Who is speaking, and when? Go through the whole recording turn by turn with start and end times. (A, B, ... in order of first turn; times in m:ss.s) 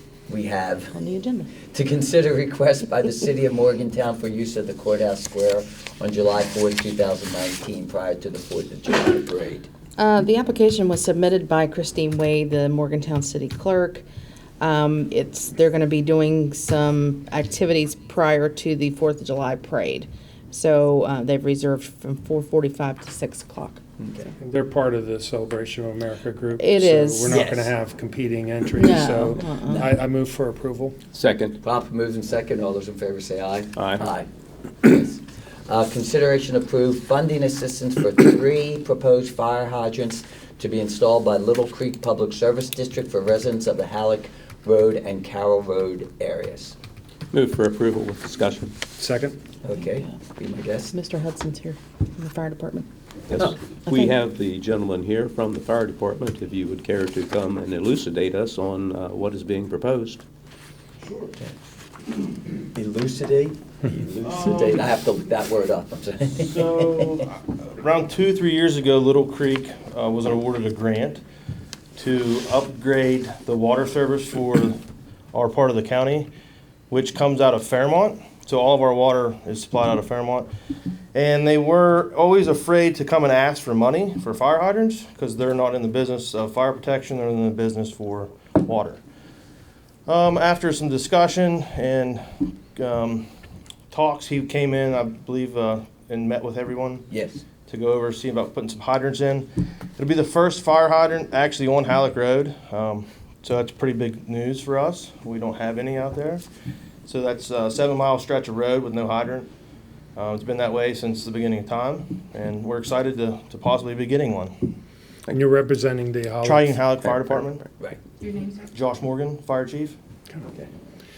0:00.3-0:01.0 A
0:00.9-0:01.5 B
0:01.7-0:09.7 A
0:10.0-0:14.0 B
0:14.6-0:23.8 B
0:24.0-0:24.3 A
0:24.4-0:30.9 C
0:26.6-0:27.4 B
0:27.3-0:27.7 A
0:28.8-0:29.8 B
0:31.1-0:31.6 D
0:31.6-0:34.3 A
0:33.8-0:34.1 D
0:34.8-0:46.8 A
0:47.3-0:48.7 D
0:49.0-0:49.4 C
0:49.6-0:51.0 A
0:50.9-0:52.9 B
0:53.3-1:00.2 D
0:53.8-0:54.1 B
1:01.0-1:01.3 E
1:02.7-1:07.2 A
1:04.2-1:04.9 E
1:06.4-1:11.2 E
1:12.0-1:14.8 E
1:15.3-1:16.3 E
1:16.9-1:20.5 E
1:21.1-1:29.0 E
1:30.1-1:33.3 E
1:33.9-1:37.1 E
1:37.1-1:37.4 A
1:37.7-1:46.4 E
1:47.0-1:49.5 E
1:50.2-1:54.8 E
1:55.3-1:56.8 C
1:56.4-1:57.7 E
1:58.7-2:00.0 E